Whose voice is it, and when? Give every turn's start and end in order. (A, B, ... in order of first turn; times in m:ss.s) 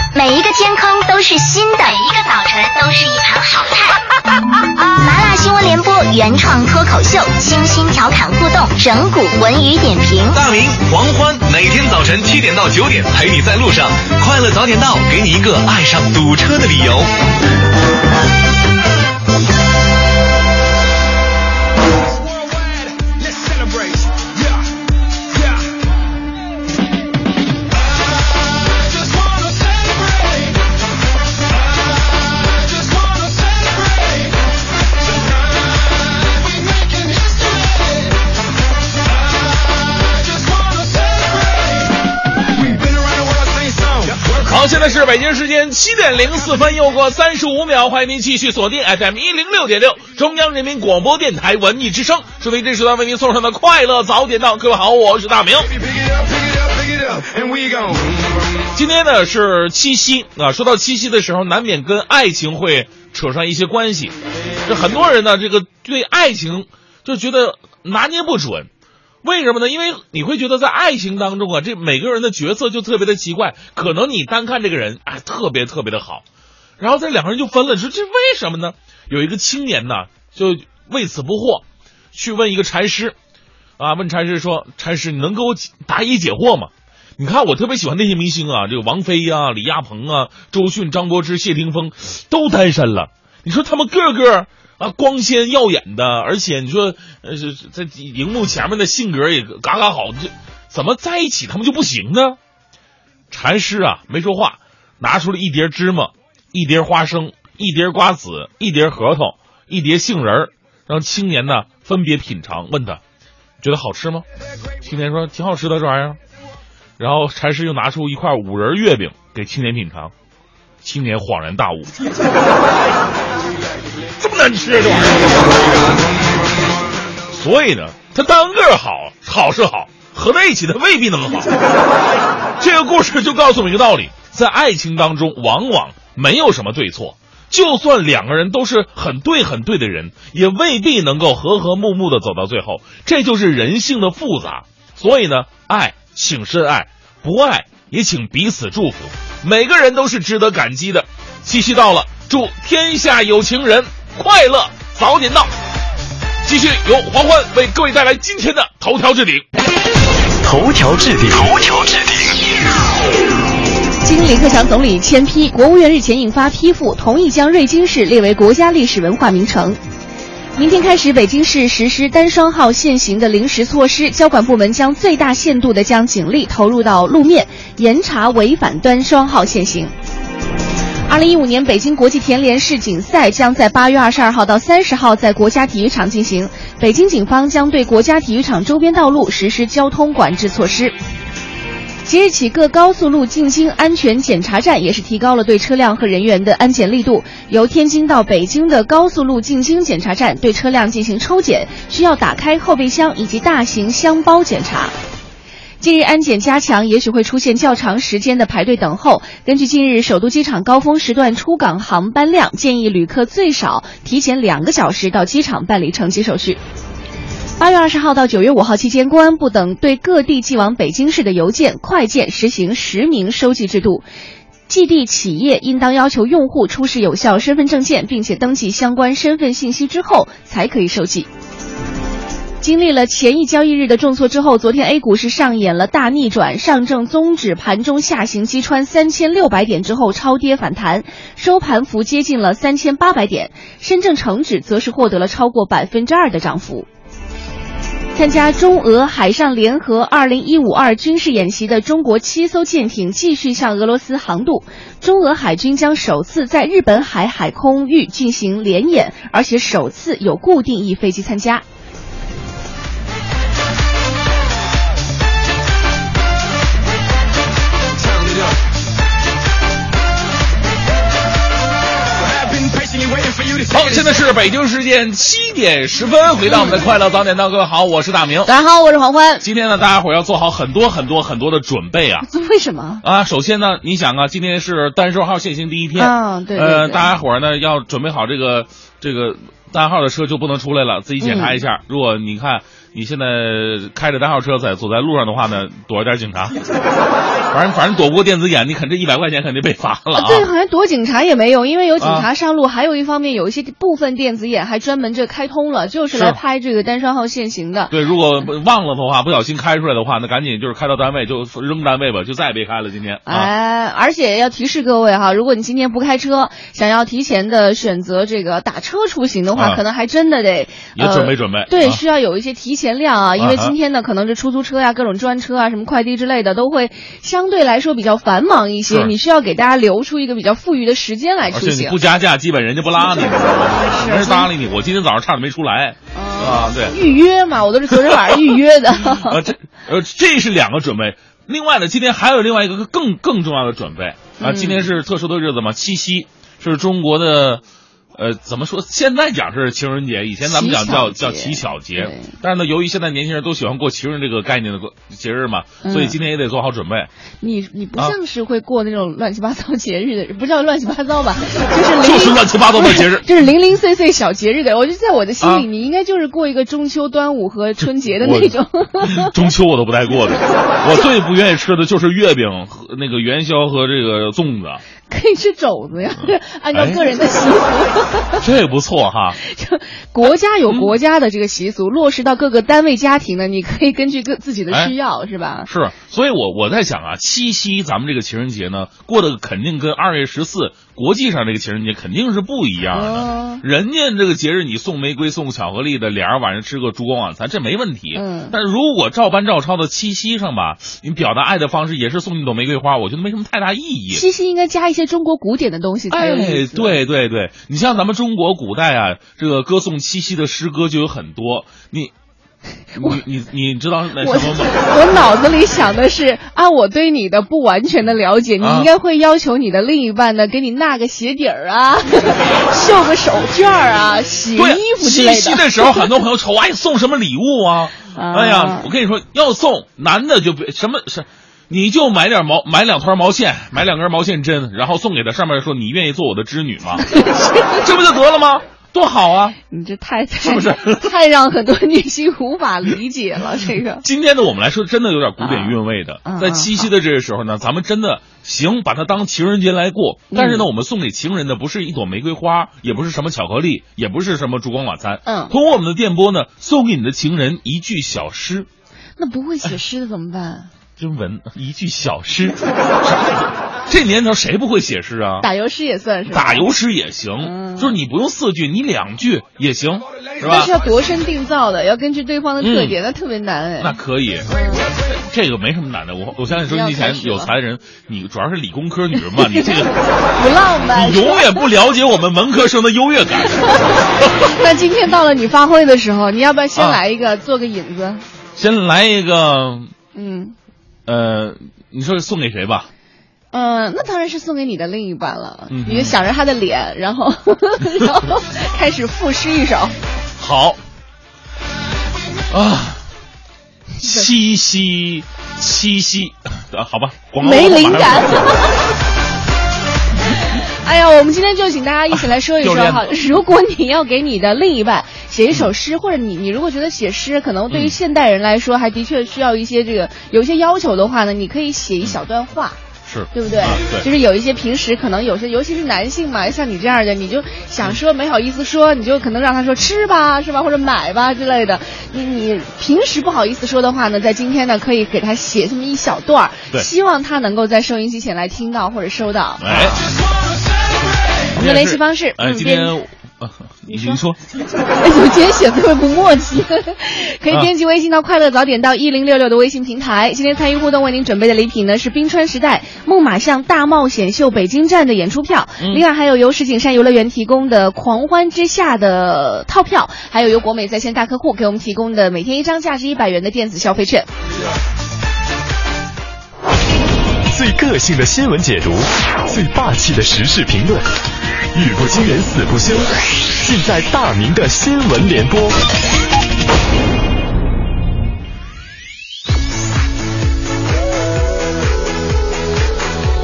0:00.1-0:04.0 A
0:04.8-0:10.4 A
0:10.3-0:17.1 B
0:44.3-0:55.8 C
0:58.7-1:04.2 C
1:04.7-1:08.7 C
1:09.2-1:16.2 C
1:16.8-1:23.2 C
1:23.8-1:42.4 C
1:43.3-1:53.0 C
1:53.6-1:54.2 C
1:54.8-1:56.2 C
1:57.0-2:00.1 C
2:00.8-2:01.9 C
2:04.2-2:05.5 C
2:07.3-2:11.5 C
2:12.6-2:35.5 C
2:36.4-2:39.4 C
2:40.4-2:42.1 D
2:44.0-2:49.8 E
2:50.6-2:59.9 E
3:01.1-3:11.0 E
3:12.0-3:24.9 E
3:25.8-3:36.6 E
3:37.6-3:44.1 E
3:44.7-3:51.3 E
3:52.6-4:06.9 E
4:08.2-4:21.6 E
4:33.7-4:38.5 C
4:36.5-4:36.8 E
4:38.4-4:39.4 E
4:39.4-4:42.3 C
4:42.3-4:43.0 E
4:43.0-4:56.6 C
4:46.0-4:47.0 E
4:51.2-4:51.6 E
4:57.5-5:00.5 C
5:00.1-5:07.9 E
5:02.0-5:02.3 C
5:06.1-5:06.4 C
5:07.9-5:13.5 C
5:13.3-5:32.0 E
5:19.5-5:19.8 C
5:21.0-5:22.0 C
5:23.4-5:23.8 C
5:28.9-5:29.1 C
5:31.5-5:37.0 C
5:33.8-5:34.5 E
5:36.1-5:39.4 E
5:37.9-5:47.6 C
5:44.4-5:44.9 E
5:48.2-5:57.1 C
5:50.4-5:52.3 E
5:55.8-5:56.2 E
5:57.4-6:09.3 E
6:02.0-6:03.3 C
6:05.4-6:05.7 C
6:07.8-6:14.8 C
6:15.1-6:18.4 E
6:16.2-6:17.0 C
6:18.4-6:19.4 C
6:19.4-6:25.7 E
6:25.7-6:44.2 C
6:32.9-6:33.6 E
6:38.1-6:38.6 E
6:44.1-6:47.0 E
6:46.1-6:52.1 C
6:53.0-6:54.8 C
6:54.2-7:06.1 E
6:58.6-6:58.9 C
7:04.6-7:17.2 C
7:08.1-7:08.9 E
7:17.1-7:17.8 E
7:17.7-7:19.6 C
7:19.7-7:24.0 E
7:20.4-7:21.1 C
7:24.0-7:38.7 C
7:25.4-7:26.9 E
7:30.3-7:30.7 E
7:35.3-7:35.5 E
7:39.2-7:40.7 E
7:41.0-7:45.5 C
7:45.4-7:46.7 E
7:46.3-7:50.7 C
7:47.4-7:48.0 E
7:50.4-7:54.0 E
7:52.6-7:53.0 C
7:53.8-8:00.0 C
7:54.5-7:54.9 E
7:56.7-7:57.5 E
7:59.4-7:59.7 E
8:00.4-8:01.6 E
8:00.9-8:04.3 C
8:04.4-8:08.2 E
8:06.8-8:07.0 C
8:08.6-8:09.9 C
8:10.2-8:10.6 E
8:11.1-8:12.9 C
8:13.5-8:20.0 E
8:15.7-8:16.2 C
8:20.4-8:20.8 C
8:22.5-8:23.0 C
8:24.0-8:28.6 C
8:27.4-8:28.8 E
8:30.3-8:42.8 E
8:32.1-8:33.1 C
8:37.7-8:38.0 C
8:43.1-8:44.1 C
8:43.3-9:00.0 E
8:59.6-9:00.0 C
9:01.5-9:03.0 E
9:01.5-9:04.4 C
9:03.9-9:04.2 E
9:05.0-9:24.3 E
9:27.5-9:31.1 D
9:31.8-9:35.8 D